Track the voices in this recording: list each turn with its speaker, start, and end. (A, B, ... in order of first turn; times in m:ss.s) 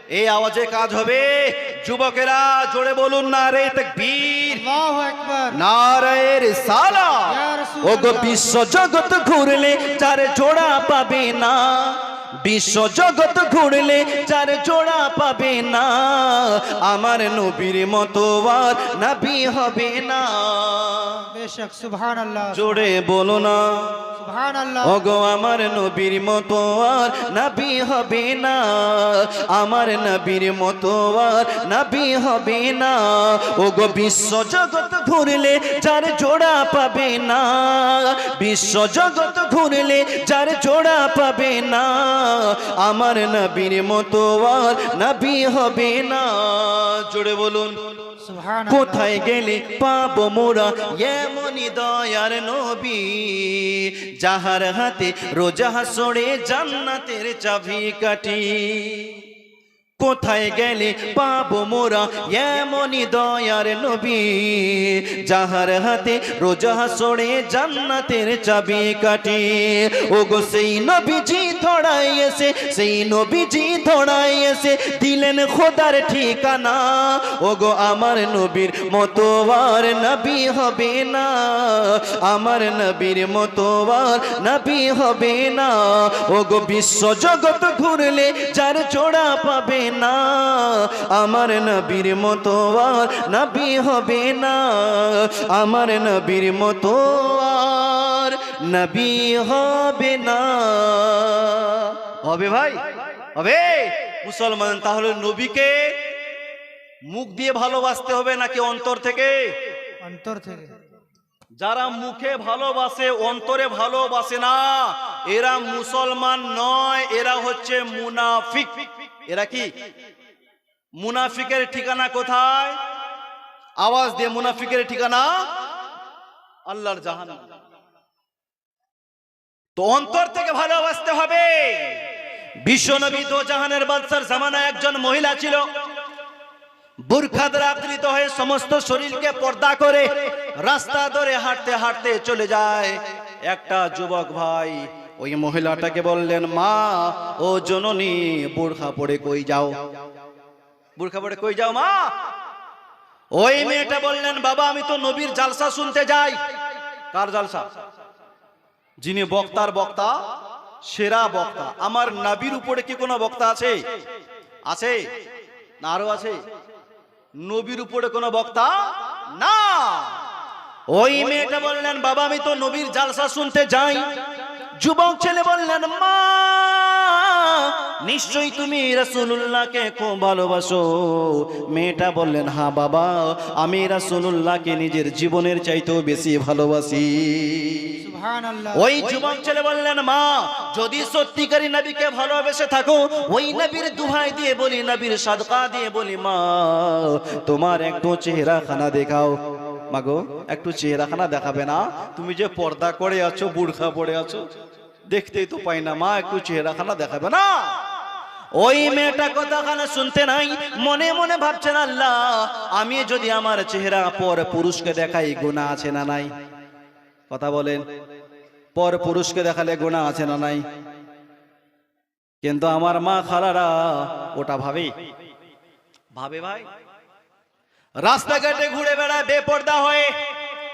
0:00.1-0:04.6 A
0:04.5-0:05.6 B
0:05.5-0:21.2 A
0:07.3-0:08.6 B
0:21.3-0:22.9 B
0:22.5-0:23.9 A
0:24.2-0:25.0 B
0:24.8-0:47.8 A
0:48.2-0:49.2 B
0:48.7-0:59.2 A
1:00.0-1:42.8 A
1:43.4-1:46.1 A
1:47.1-1:49.5 A
1:50.0-1:50.8 B
1:51.6-1:59.7 A
2:01.0-2:02.8 A
2:03.8-2:05.4 A
2:06.7-2:07.4 A
2:09.8-2:12.0 A
2:12.6-2:15.7 A
2:17.1-2:29.7 A
2:31.0-2:32.0 A
2:33.4-2:36.4 A
2:37.1-2:37.7 A
2:39.0-2:40.2 A
2:40.9-2:43.8 A
2:44.7-2:45.0 A
2:45.8-2:46.4 A
2:47.4-2:48.8 A
2:49.3-2:50.1 A
2:50.9-2:54.0 A
2:54.8-3:08.0 A
3:08.0-3:09.2 B
3:08.8-3:24.4 A
3:25.1-3:27.6 A
3:28.6-3:36.3 A
3:37.3-3:37.8 A
3:38.8-3:40.6 A
3:42.4-3:44.9 A
3:46.2-3:46.6 A
3:48.0-3:50.1 A